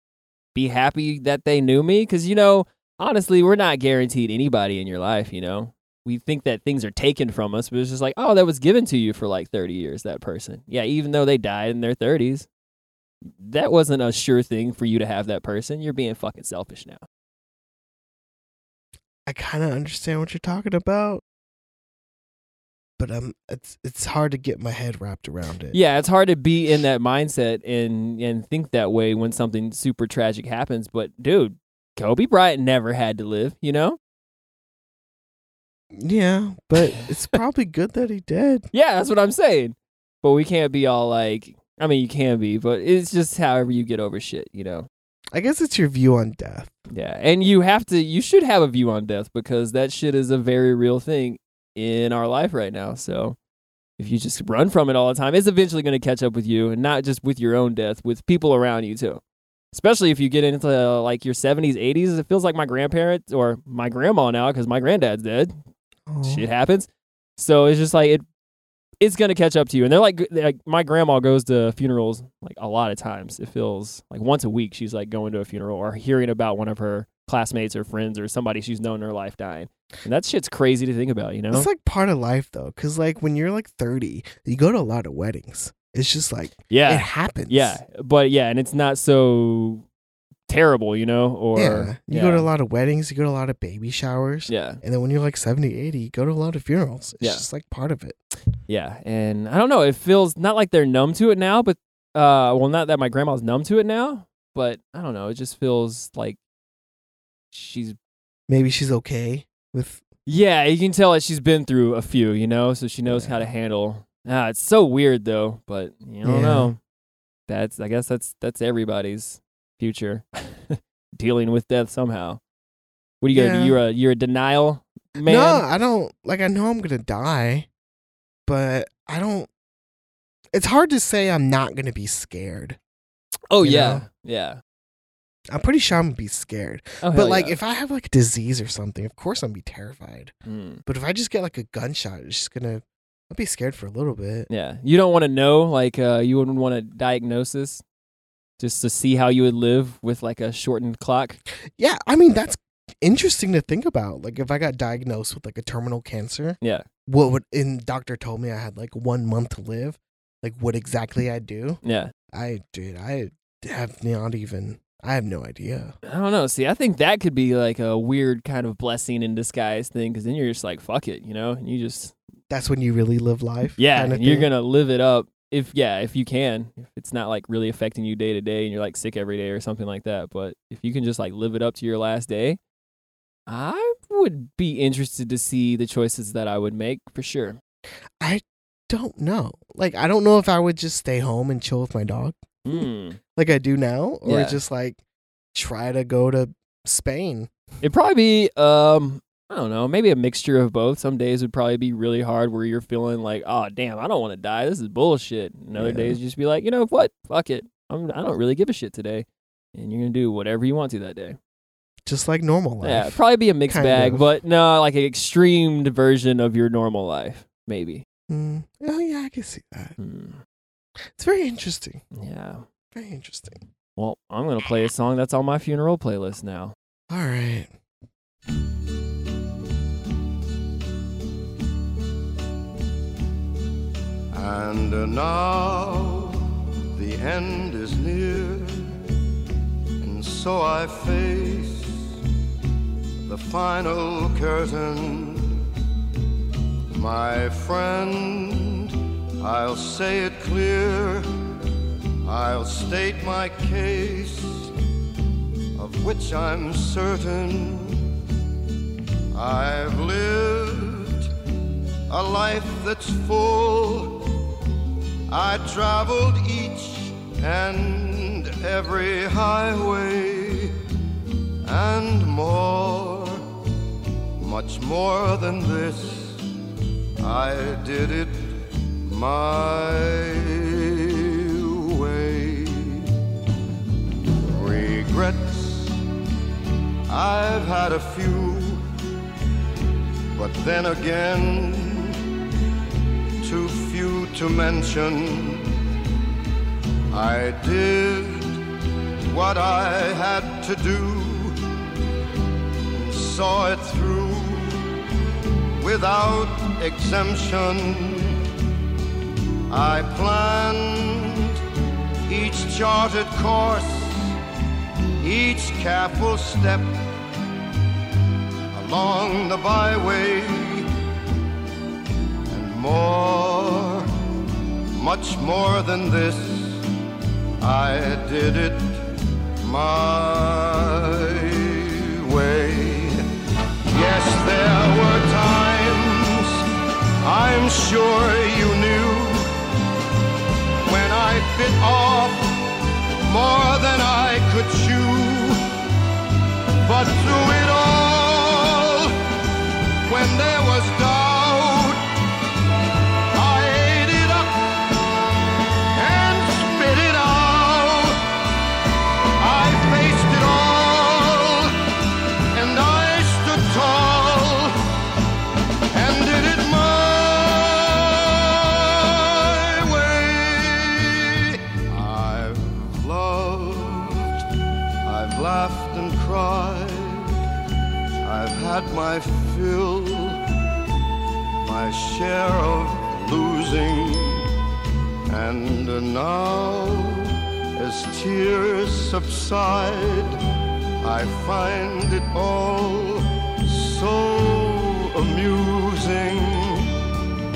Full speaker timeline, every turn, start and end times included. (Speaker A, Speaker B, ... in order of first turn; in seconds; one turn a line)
Speaker A: 0.5-12.5
Speaker A: 13.4-17.0
Speaker B: 19.3-21.2
Speaker B: 23.0-25.8
Speaker A: 25.7-34.0
Speaker B: 35.9-38.7
Speaker A: 38.7-44.9
Speaker B: 45.3-46.8
Speaker A: 46.9-53.4
Speaker A: 54.0-59.2
Speaker A: 59.7-65.5
Speaker B: 66.1-66.5
Speaker A: 66.2-68.2
Speaker A: 69.0-81.7
Speaker B: 81.5-87.8
Speaker A: 86.7-89.8
Speaker A: 90.5-92.5
Speaker B: 91.5-98.2
Speaker A: 94.5-94.8
Speaker A: 98.7-106.4
Speaker A: 107.5-108.0
Speaker B: 108.5-110.0
Speaker A: 110.3-116.8
Speaker B: 113.1-113.5
Speaker B: 116.2-116.7
Speaker A: 117.5-122.4
Speaker A: 123.2-125.7
Speaker B: 123.3-123.8
Speaker B: 125.2-127.7
Speaker B: 128.5-129.5
Speaker B: 130.5-132.8
Speaker A: 133.5-134.6
Speaker B: 133.6-134.1
Speaker B: 135.5-140.3
Speaker A: 137.0-137.6
Speaker A: 140.5-140.8
Speaker B: 140.9-144.5
Speaker A: 144.5-147.8
Speaker A: 148.6-151.4
Speaker B: 151.8-161.8
Speaker A: 161.8-162.1
Speaker B: 162.3-165.9
Speaker A: 166.1-172.2
Speaker B: 172.5-174.5
Speaker A: 173.8-182.6
Speaker A: 183.5-187.6
Speaker B: 188.2-192.8
Speaker A: 192.7-193.2
Speaker B: 193.4-195.0
Speaker A: 194.2-194.6
Speaker B: 195.5-197.5
Speaker A: 197.8-211.4
Speaker B: 205.8-206.2
Speaker B: 212.1-214.3
Speaker A: 212.8-218.0
Speaker B: 218.3-219.9
Speaker A: 220.0-220.4
Speaker B: 221.2-222.0
Speaker A: 222.1-222.7
Speaker B: 222.9-223.6
Speaker A: 224.0-226.8
Speaker B: 227.1-227.7
Speaker C: 234.3-236.4
Speaker C: 236.9-238.9
Speaker C: 240.0-241.9
Speaker C: 243.2-245.6
Speaker C: 246.9-251.3
Speaker C: 252.2-254.7
Speaker C: 255.8-258.1
Speaker C: 259.3-261.3
Speaker C: 262.1-264.3
Speaker C: 265.3-270.7
Speaker C: 271.6-273.4
Speaker C: 274.4-276.4
Speaker C: 277.2-283.1
Speaker C: 284.4-286.0
Speaker C: 287.1-288.8
Speaker C: 290.4-292.2
Speaker C: 293.4-295.7
Speaker C: 297.1-298.6
Speaker C: 299.3-301.6
Speaker C: 302.9-304.8
Speaker C: 305.8-308.4
Speaker C: 309.7-311.6
Speaker C: 312.3-314.4
Speaker C: 315.2-316.9
Speaker C: 318.7-320.9
Speaker C: 322.5-324.1
Speaker C: 324.9-326.9
Speaker C: 327.6-329.0
Speaker C: 329.6-333.2
Speaker C: 333.9-336.6
Speaker C: 337.2-339.4
Speaker C: 340.9-342.7
Speaker C: 343.3-345.6
Speaker C: 346.8-349.2
Speaker C: 350.1-352.0
Speaker C: 353.3-355.0
Speaker C: 355.9-358.2
Speaker C: 359.4-361.8
Speaker C: 362.5-364.8
Speaker C: 365.9-374.3
Speaker C: 375.1-377.3
Speaker C: 378.2-380.4
Speaker C: 381.6-384.5
Speaker C: 385.3-390.4
Speaker C: 391.0-396.9